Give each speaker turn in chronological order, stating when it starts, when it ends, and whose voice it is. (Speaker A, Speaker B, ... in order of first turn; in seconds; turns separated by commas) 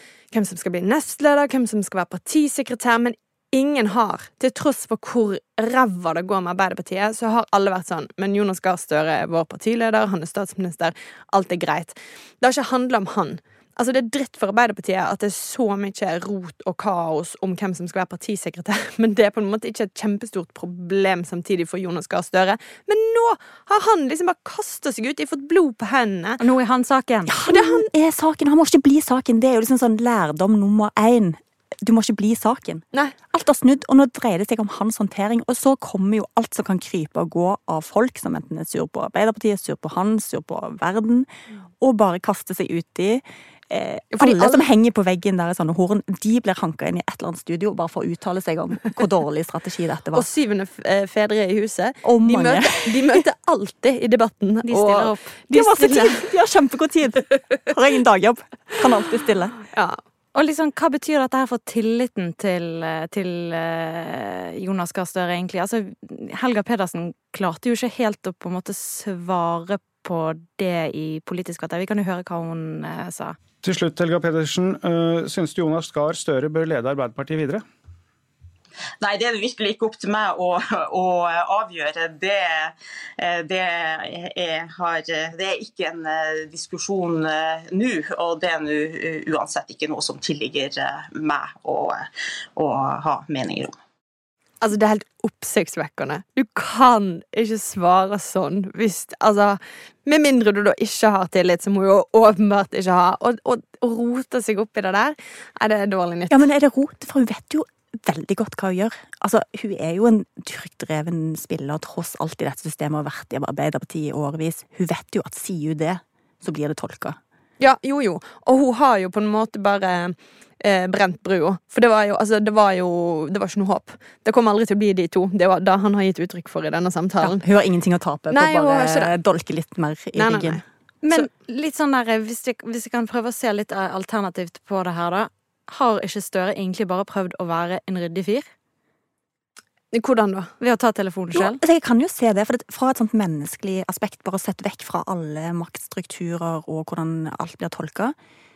Speaker A: 0.3-26.4, Speaker B: 26.4-27.3, Speaker C: 27.3-41.3, Speaker A: 27.5-27.9, Speaker C: 41.8-50.3, Speaker A: 44.1-44.6, Speaker A: 50.1-56.3, Speaker C: 52.0-53.2, Speaker B: 54.6-55.4, Speaker C: 55.5-59.6, Speaker A: 59.7-60.0, Speaker B: 60.4-73.4, Speaker D: 73.6-77.6, Speaker E: 79.0-92.0, Speaker E: 92.6-93.8, Speaker A: 94.6-106.4, Speaker C: 106.3-117.2, Speaker A: 117.6-127.4, Speaker C: 127.2-130.6, Speaker A: 128.3-129.1, Speaker A: 130.2-130.6, Speaker B: 131.0-138.5, Speaker A: 139.9-140.5, Speaker B: 140.6-141.6, Speaker C: 141.3-148.2